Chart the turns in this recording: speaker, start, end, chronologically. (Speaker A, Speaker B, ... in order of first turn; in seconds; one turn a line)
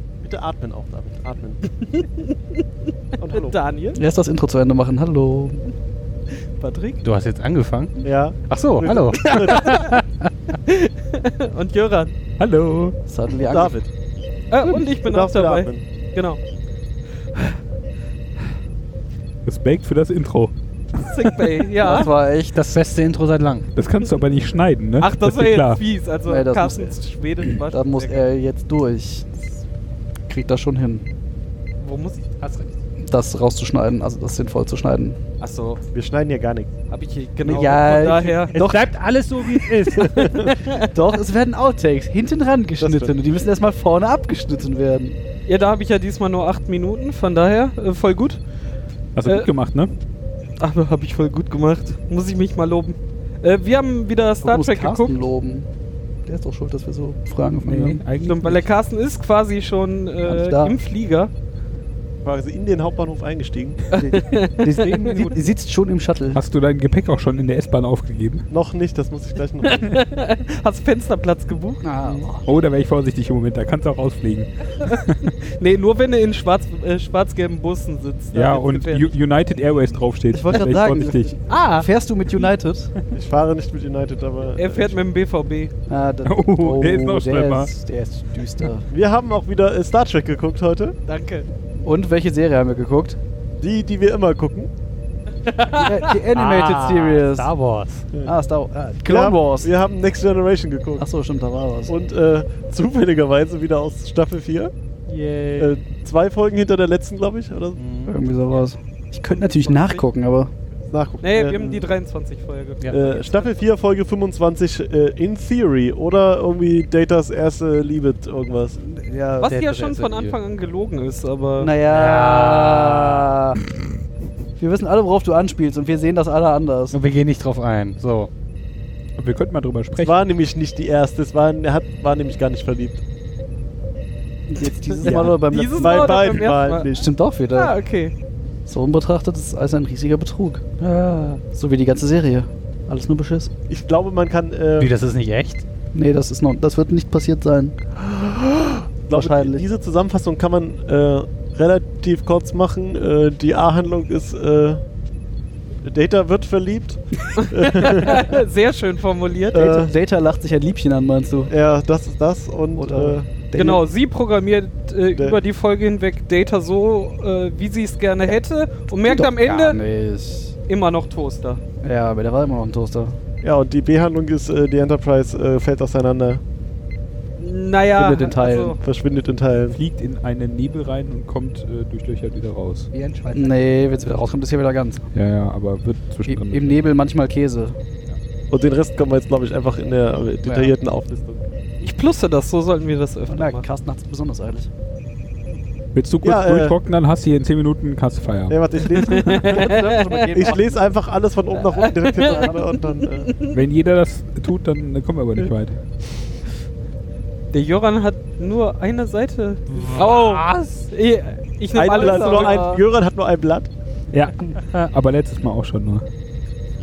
Speaker A: 0.2-1.6
Speaker B: 1.8-2.3
Speaker A: 3.2-3.6
Speaker B: 3.2-4.0
Speaker C: 4.0-5.7
Speaker B: 6.6-7.0
Speaker D: 7.0-10.3
Speaker A: 8.0-9.9
Speaker B: 9.2-10.0
Speaker B: 10.6-12.1
Speaker E: 12.4-13.0
Speaker C: 13.1-13.8
Speaker A: 13.4-13.9
Speaker B: 14.5-16.4
Speaker A: 15.0-15.8
Speaker E: 19.4-21.5
Speaker B: 21.1-22.1
Speaker C: 21.8-22.6
Speaker D: 22.5-23.7
Speaker E: 23.8-25.8
Speaker B: 25.0-28.2
Speaker C: 26.3-26.9
Speaker C: 27.7-29.5
Speaker C: 30.3-31.1
Speaker B: 31.8-32.4
Speaker D: 32.4-32.8
Speaker C: 33.1-35.2
Speaker B: 35.4-35.8
Speaker A: 35.9-36.7
Speaker B: 36.9-38.5
Speaker C: 37.4-39.0
Speaker D: 38.5-40.4
Speaker B: 40.0-40.9
Speaker A: 40.0-40.5
Speaker C: 40.7-45.2
Speaker A: 42.8-43.1
Speaker B: 45.5-48.4
Speaker E: 49.1-50.0
Speaker B: 50.6-55.1
Speaker C: 54.4-55.7
Speaker C: 56.3-58.0
Speaker E: 57.6-58.7
Speaker B: 58.2-61.3
Speaker C: 60.2-60.8
Speaker A: 62.2-63.8
Speaker C: 63.9-66.4
Speaker B: 63.9-65.4
Speaker E: 66.3-68.5
Speaker A: 68.5-70.0
Speaker B: 69.6-72.3
Speaker C: 71.8-72.4
Speaker E: 72.5-75.3
Speaker B: 75.3-79.2
Speaker E: 78.3-81.4
Speaker C: 80.3-82.9
Speaker B: 81.5-81.9
Speaker A: 83.1-85.0
Speaker B: 84.6-85.7
Speaker C: 85.9-88.8
Speaker E: 86.2-87.7
Speaker A: 88.9-91.0
Speaker B: 91.1-91.5
Speaker C: 91.8-93.2
Speaker A: 93.6-94.7
Speaker B: 95.5-96.2
Speaker C: 95.8-97.5
Speaker D: 96.3-98.1
Speaker C: 98.2-99.7
Speaker A: 99.0-101.1
Speaker C: 101.0-101.9
Speaker A: 101.9-104.7
Speaker D: 105.1-105.8
Speaker A: 105.6-107.8
Speaker D: 107.8-108.2
Speaker C: 108.1-110.5
Speaker B: 109.4-110.0
Speaker A: 110.9-111.9
Speaker B: 111.2-113.7
Speaker A: 112.9-118.8
Speaker C: 118.8-119.8
Speaker B: 119.4-121.7
Speaker D: 119.5-120.4
Speaker C: 121.6-123.6
Speaker D: 121.9-123.3
Speaker C: 124.6-127.0
Speaker D: 126.9-128.3
Speaker E: 129.2-130.2
Speaker A: 130.0-133.0
Speaker C: 134.5-136.3
Speaker B: 135.0-136.9
Speaker A: 135.0-137.1
Speaker C: 136.9-137.7
Speaker B: 137.5-138.1
Speaker C: 138.7-140.6
Speaker D: 140.8-141.4
Speaker C: 141.5-143.5
Speaker A: 143.7-144.9
Speaker D: 144.8-145.6
Speaker C: 145.9-147.8
Speaker A: 148.0-154.8
Speaker C: 149.1-149.7
Speaker A: 155.8-158.4
Speaker B: 157.4-159.8
Speaker A: 159.5-159.9
Speaker C: 159.5-161.5
Speaker A: 161.5-163.3
Speaker C: 162.8-163.8
Speaker B: 163.6-169.8
Speaker C: 169.1-170.6
Speaker B: 170.7-171.6
Speaker C: 171.8-173.2
Speaker A: 173.4-176.4
Speaker B: 177.4-178.8
Speaker C: 177.9-178.8
Speaker A: 178.8-179.8
Speaker E: 179.7-182.9
Speaker D: 182.9-183.8
Speaker C: 183.3-185.1
Speaker E: 185.1-186.9
Speaker C: 186.3-187.8
Speaker A: 188.5-191.5
Speaker D: 190.4-190.7
Speaker B: 191.8-193.6
Speaker C: 193.3-194.7
Speaker E: 195.9-199.2
Speaker A: 196.2-196.8
Speaker A: 198.5-203.3
Speaker B: 199.1-200.3
Speaker C: 199.2-200.8
Speaker B: 201.7-202.6
Speaker C: 202.2-202.5
Speaker E: 203.5-205.8
Speaker B: 207.5-212.8
Speaker D: 209.7-210.9
Speaker A: 211.7-213.7
Speaker C: 211.9-212.8
Speaker E: 214.1-216.1